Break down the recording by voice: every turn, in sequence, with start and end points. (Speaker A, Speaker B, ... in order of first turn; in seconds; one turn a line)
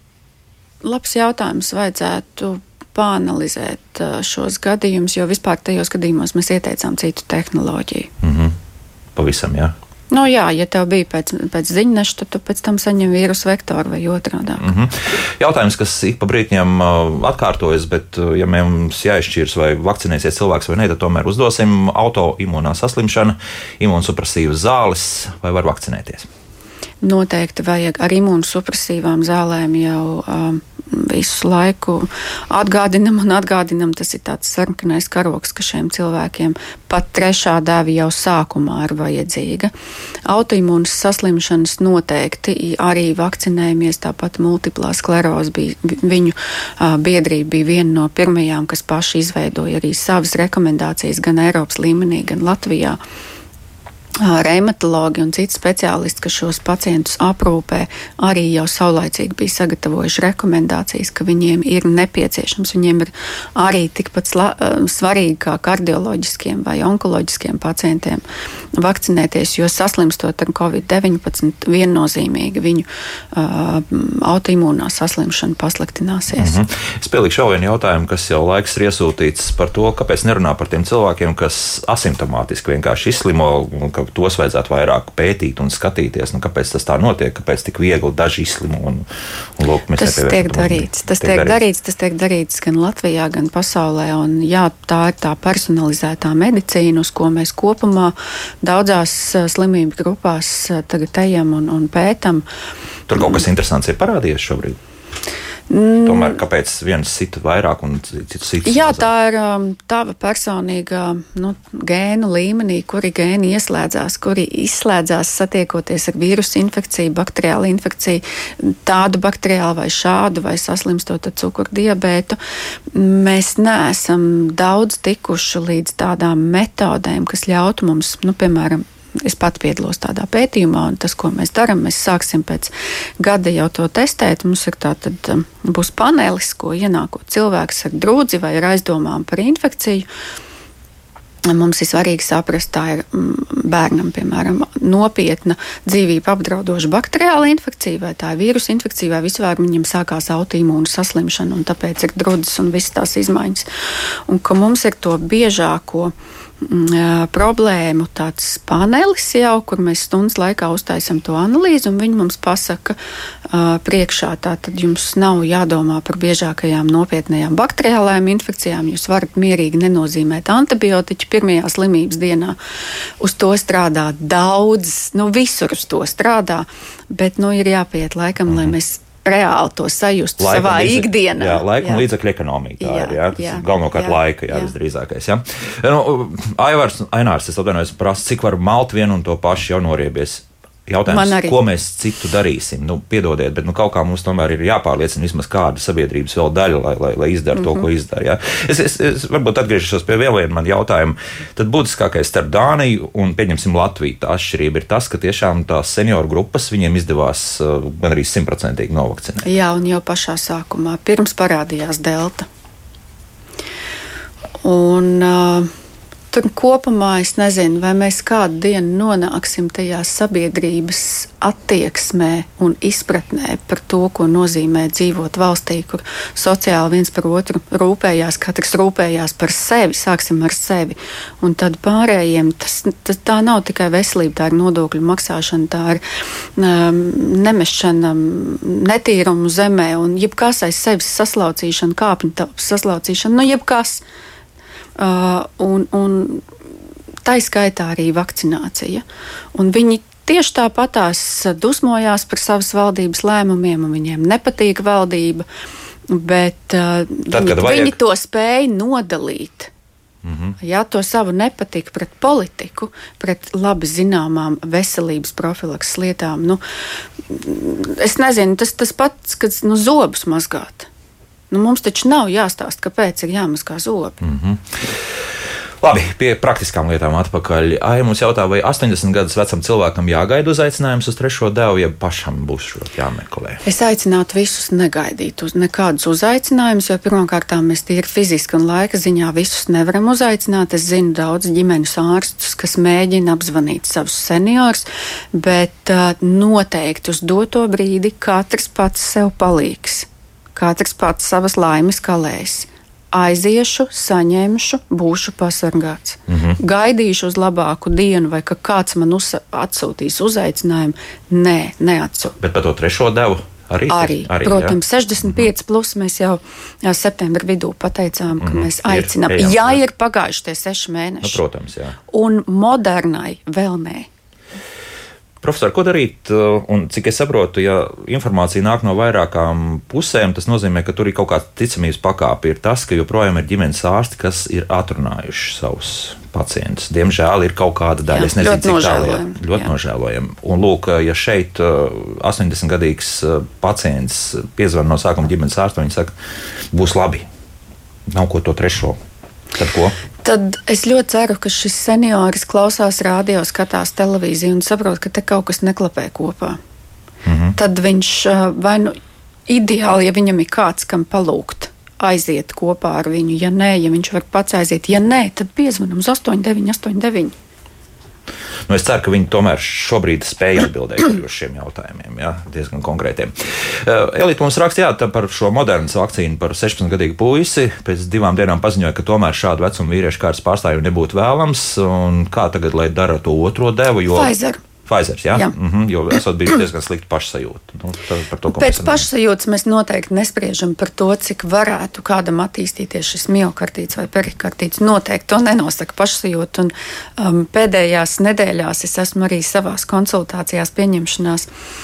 Speaker A: 0.8-8.1
Speaker B: 8.2-8.6
Speaker B: 9.2-9.8
Speaker A: 10.1-14.7
Speaker B: 14.6-26.3
Speaker A: 27.0-39.7
Speaker A: 40.3-53.0
Speaker A: 54.2-68.2
Speaker A: 68.8-76.6
Speaker B: 76.4-89.1
Speaker B: 89.6-91.6
Speaker A: 90.0-102.5
Speaker B: 103.1-104.8
Speaker A: 105.7-106.4
Speaker B: 106.0-109.1
Speaker A: 108.7-122.4
Speaker A: 122.9-140.1
Speaker A: 141.4-153.7
Speaker A: 154.3-163.0
Speaker A: 163.5-172.6
Speaker A: 173.2-182.1
Speaker B: 178.5-178.7
Speaker B: 180.4-209.5
Speaker A: 182.8-184.7
Speaker A: 191.1-191.6
Speaker A: 197.5-197.9
Speaker A: 209.4-212.5
Speaker A: 214.6-215.7
Speaker A: 216.3-236.0
Speaker A: 236.6-244.0
Speaker A: 245.0-246.4
Speaker A: 247.3-249.0
Speaker A: 249.6-255.4
Speaker A: 256.1-259.7
Speaker B: 257.3-258.0
Speaker B: 260.2-260.6
Speaker A: 260.6-266.6
Speaker A: 267.3-270.9
Speaker A: 271.5-274.2
Speaker B: 274.2-275.2
Speaker B: 275.8-283.6
Speaker A: 283.6-312.4
Speaker B: 306.3-306.6
Speaker B: 312.4-315.5
Speaker A: 313.9-321.4
Speaker B: 318.4-319.8
Speaker B: 321.2-322.0
Speaker A: 322.1-324.1
Speaker B: 325.4-346.1
Speaker A: 338.1-339.7
Speaker B: 346.7-347.3
Speaker B: 348.1-349.0
Speaker B: 349.6-350.0
Speaker A: 350.2-356.6
Speaker B: 357.2-357.6
Speaker A: 357.6-359.0
Speaker A: 359.5-367.3
Speaker B: 368.7-389.1
Speaker A: 384.1-384.6
Speaker A: 388.5-401.5